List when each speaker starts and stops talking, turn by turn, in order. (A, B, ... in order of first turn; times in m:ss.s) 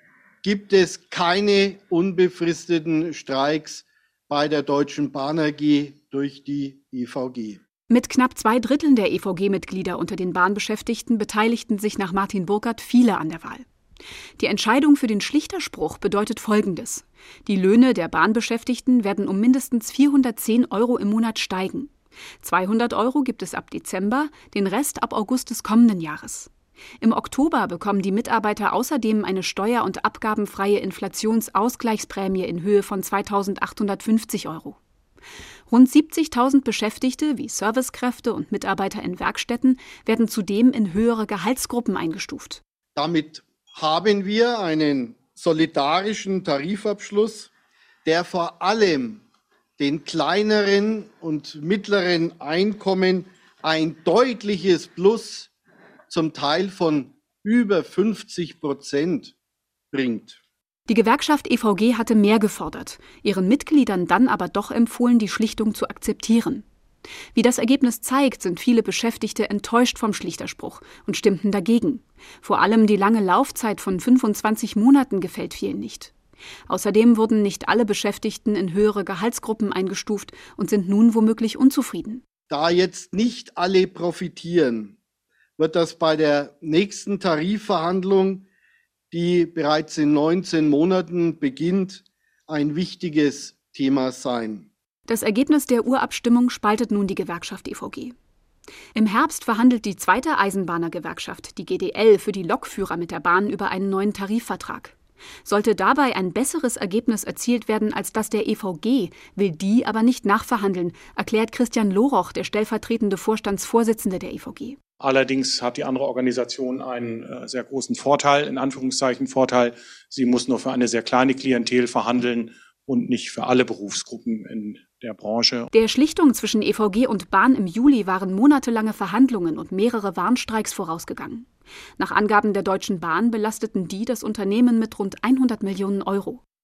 0:00.4-0:07.6 A
0:07.9-0:13.6 B
0:14.4-0:26.5 B
0:27.0-0:34.8 B
0:35.7-0:42.6 B
0:43.0-0:47.5 A
0:48.0-0:49.2 A
0:49.8-0:55.5 A
0:56.1-0:59.3 A
0:59.9-1:00.4 A
1:00.9-1:06.6 B
1:07.3-1:16.1 B
1:16.7-1:22.2 B
1:22.5-1:25.0 A
1:25.6-1:28.5 A
1:29.1-1:34.7 A
1:35.1-1:38.1 B
1:38.9-1:44.9 B
1:45.4-1:54.8 B
1:55.0-2:05.7 C
2:05.7-2:11.5 B
2:12.0-2:16.4 B